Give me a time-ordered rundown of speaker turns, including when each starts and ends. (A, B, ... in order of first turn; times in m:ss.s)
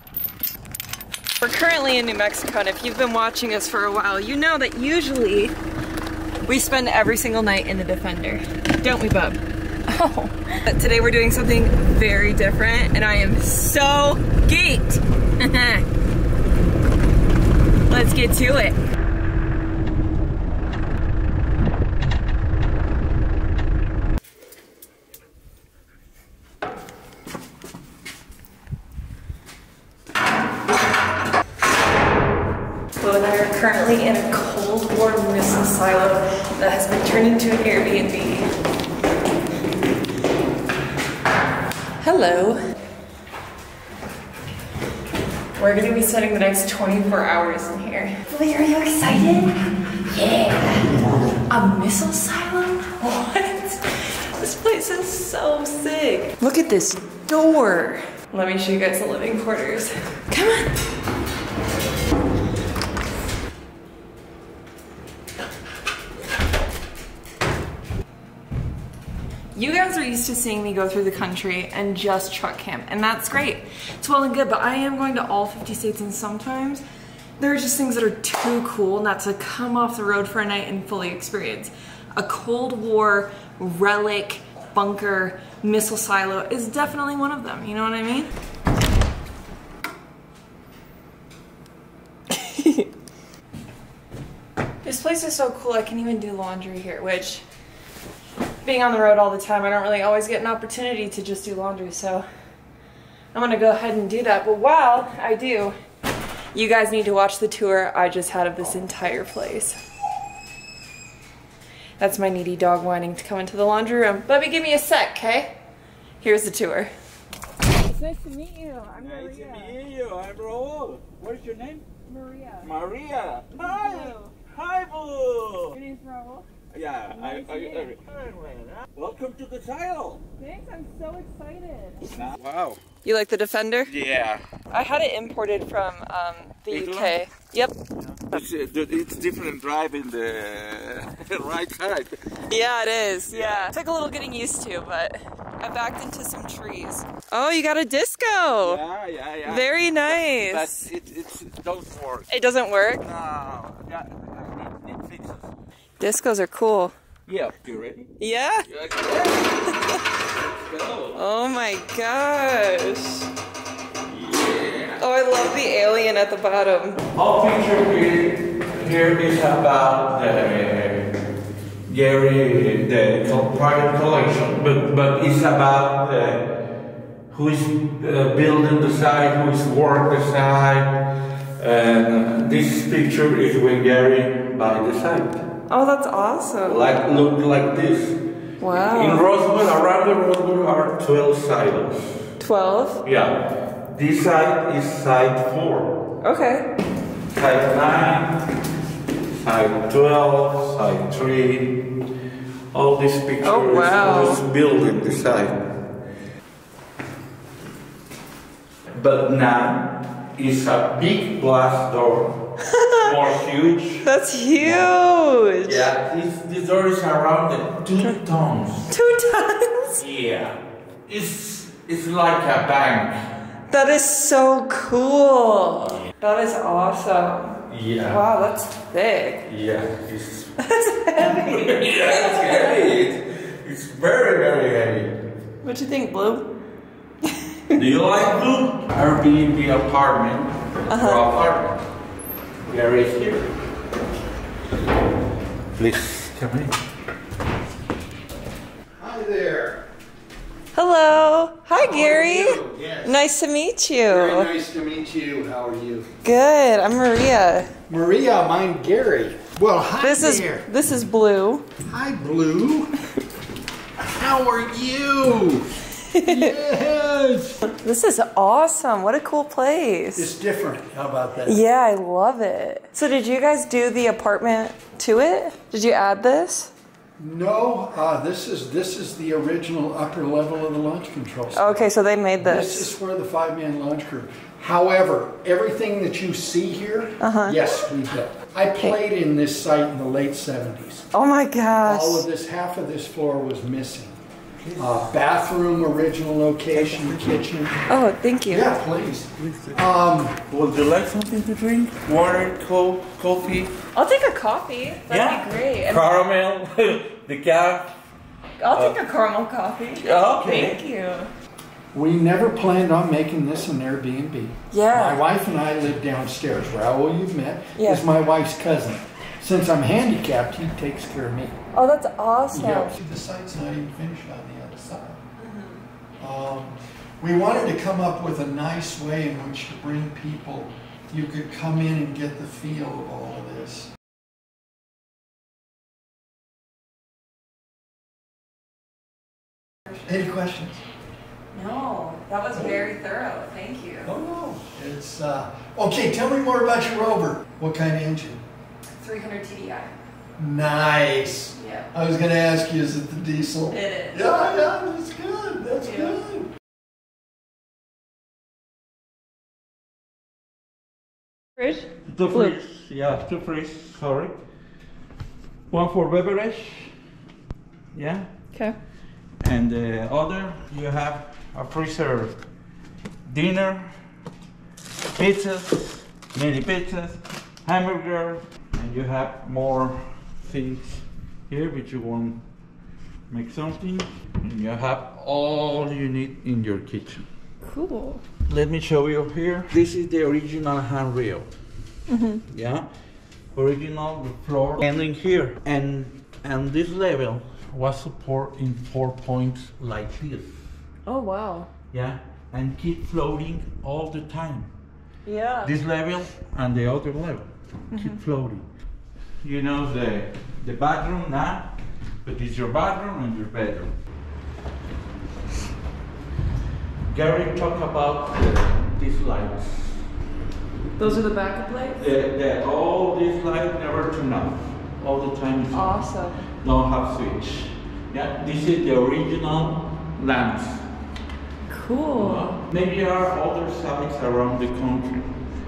0:01.4-0:05.5 A
0:06.4-0:15.8 A
0:17.9-0:18.8 A
0:33.0-0:38.5 A
0:42.0-0:42.6 A
0:45.6-0:50.9 A
0:51.5-1:00.7 A
1:09.5-1:16.8 A
1:17.4-1:28.3 A
1:32.3-1:32.9 A
1:34.8-1:37.4 A
1:38.6-1:42.2 A
1:43.3-1:45.7 A
1:46.5-1:49.8 A
1:52.0-1:55.6 A
1:56.2-1:56.9 A
1:57.8-1:59.8 A
1:59.0-2:01.8 B
2:02.0-2:02.7 A
2:02.6-2:05.8 B
2:03.6-2:04.3 A
2:05.7-2:06.5 A
2:06.7-2:10.2 B
2:07.1-2:07.9 A
2:10.4-2:12.2 A
2:12.1-2:12.8 B
2:13.0-2:13.9 A
2:13.9-2:14.4 B
2:14.7-2:17.7 A
2:16.7-2:17.2 B
2:18.0-2:22.4 B
2:22.5-2:28.8 A
2:23.3-2:23.7 B
2:28.6-2:32.3 B
2:29.4-2:30.8 A
2:32.3-2:33.0 A
2:33.0-2:35.5 B
2:36.0-2:36.9 A
2:37.3-2:38.1 B
2:38.2-2:38.7 A
2:38.7-2:41.2 B
2:39.6-2:40.0 A
2:41.1-2:43.3 A
2:44.0-2:45.0 B
2:45.0-2:47.0 A
2:47.1-2:51.1 B
2:51.9-2:56.5 B
2:57.3-3:01.0 B
3:01.6-3:05.4 B
3:05.7-3:06.8 A
3:06.7-3:08.2 B
3:08.6-3:09.2 A
3:08.7-3:12.3 B
3:12.4-3:13.0 A
3:13.0-3:15.9 B
3:16.2-3:16.7 A
3:17.3-3:18.5 B
3:19.3-3:21.8 B
3:22.7-3:25.6 B
3:23.4-3:24.4 A
3:28.9-3:32.4 B
3:32.6-3:33.1 A
3:33.0-3:34.1 B
3:34.0-3:35.9 A
3:34.6-3:34.9 B
3:35.6-3:38.9 B
3:38.9-3:40.0 A
3:40.0-3:43.3 B
3:43.7-3:49.5 A
3:47.7-3:48.2 B
3:49.4-3:50.5 B
3:50.6-3:52.9 A
3:51.2-3:55.2 B
3:55.6-3:56.5 A
3:57.7-4:01.8 B
4:00.9-4:01.2 A
4:02.7-4:03.5 B
4:05.8-4:06.7 B
4:08.9-4:09.8 C
4:10.7-4:14.5 A
4:11.7-4:13.2 C
4:14.1-4:16.1 C
4:16.2-4:17.7 A
4:17.9-4:20.6 C
4:20.0-4:21.7 A
4:21.8-4:23.0 C
4:24.0-4:27.6 C
4:26.0-4:26.6 A
4:27.7-4:30.3 A
4:30.2-4:31.6 C
4:31.4-4:36.7 A
4:37.2-4:41.8 C
4:41.5-4:42.9 A
4:42.4-4:51.0 C
4:47.2-4:47.8 A
4:51.1-4:52.2 A
4:51.8-4:54.2 C
4:54.6-4:55.2 B
4:54.8-4:57.8 C
4:56.7-4:57.5 B
4:57.9-4:58.7 A
4:58.5-5:00.4 C
4:59.4-4:59.8 B
5:00.4-5:03.7 B
5:03.9-5:06.0 A
5:05.1-5:07.9 B
5:08.6-5:11.3 A
5:10.0-5:10.8 B
5:11.9-5:21.6 C
5:14.7-5:15.2 A
5:17.8-5:18.1 A
5:21.7-5:23.0 A
5:22.5-5:25.2 C
5:25.4-5:25.8 A
5:26.2-5:33.9 C
5:40.0-5:40.8 C
5:41.5-5:44.1 A
5:42.5-5:42.8 C
5:44.0-5:48.4 C
5:48.9-5:49.9 A
5:50.4-5:56.5 C
5:51.6-5:51.9 A
5:53.7-5:54.3 A
5:55.8-5:56.2 A
6:01.6-6:02.5 A
6:02.1-6:04.4 B
6:05.7-6:06.9 B
6:07.9-6:08.3 B
6:09.4-6:12.4 B
6:13.2-6:14.0 B
6:15.1-6:22.4 B
6:23.3-6:27.2 B
6:27.6-6:28.2 A
6:28.5-6:31.5 B
6:32.1-6:32.4 A
6:32.5-6:32.9 B
6:33.5-6:40.6 B
6:41.0-6:41.7 A
6:41.9-6:44.7 B
6:45.2-6:45.7 A
6:45.6-6:48.7 B
6:47.9-6:48.2 A
6:49.4-6:53.9 B
6:57.0-7:00.0 B
7:01.0-7:02.0 A
7:02.0-7:06.0 B
7:05.7-7:06.4 A
7:06.6-7:10.8 B
7:11.7-7:12.5 A
7:12.2-7:15.3 B